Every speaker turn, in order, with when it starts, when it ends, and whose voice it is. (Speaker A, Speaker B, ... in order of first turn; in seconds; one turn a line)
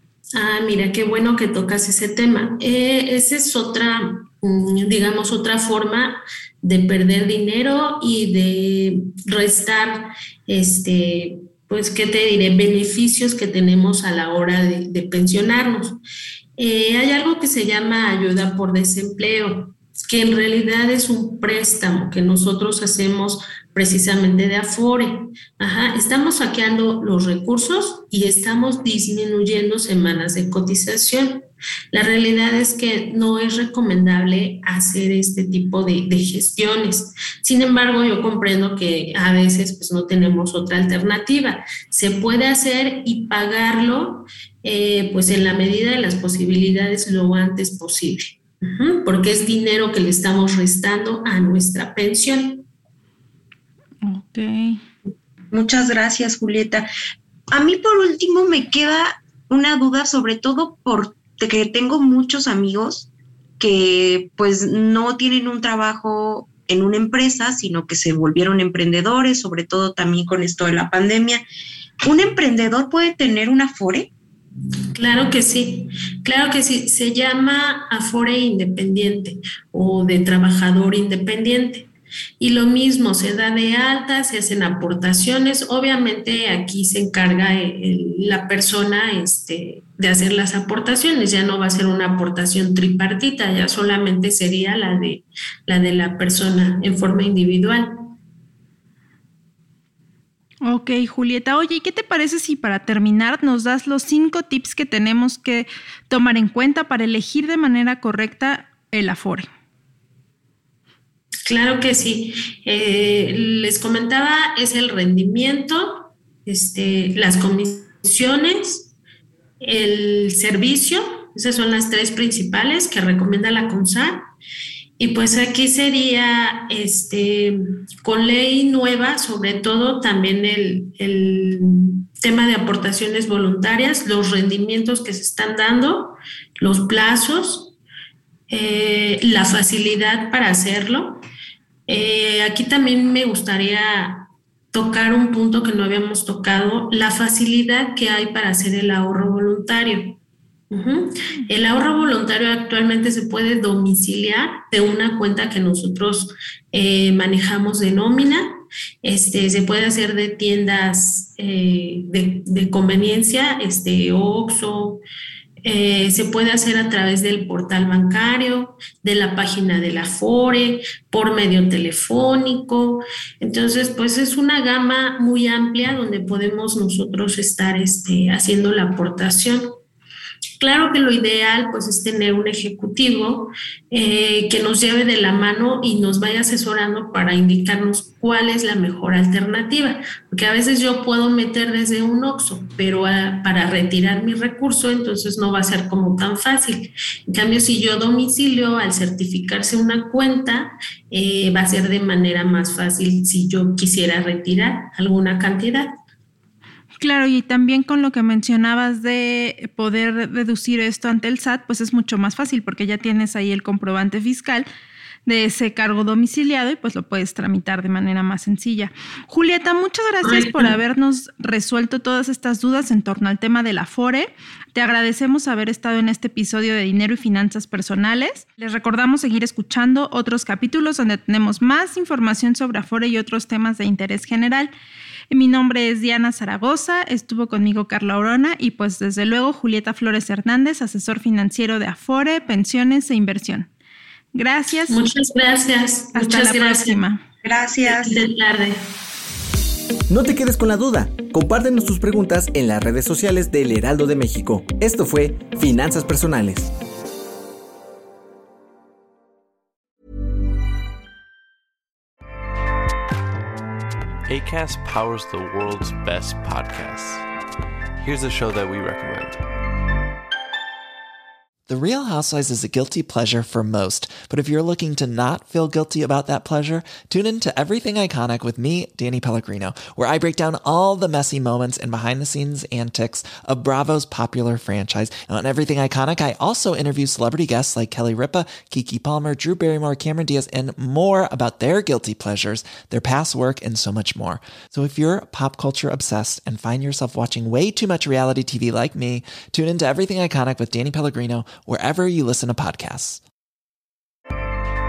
Speaker A: 0.3-16.0
Speaker A: 16.6-52.6
Speaker B: 54.0-54.8
Speaker C: 55.5-56.9
Speaker C: 57.5-71.5
Speaker C: 72.0-74.1
Speaker A: 75.0-81.9
Speaker A: 82.4-98.1
Speaker B: 100.6-109.5
Speaker A: 111.5-118.9
Speaker A: 119.6-124.2
Speaker A: 125.0-137.8
Speaker A: 138.5-141.2
Speaker A: 141.9-150.2
Speaker A: 150.7-165.0
Speaker A: 165.6-179.7
Speaker A: 180.6-205.9
Speaker B: 207.0-214.7
Speaker B: 215.3-234.7
Speaker A: 220.2-220.8
Speaker B: 235.3-243.7
Speaker B: 244.3-245.0
Speaker A: 244.9-247.0
Speaker B: 246.1-247.2
Speaker C: 247.4-248.2
Speaker A: 247.9-248.8
Speaker D: 250.1-256.7
Speaker E: 264.3-267.3
Speaker E: 268.0-269.4
Speaker F: 271.7-303.2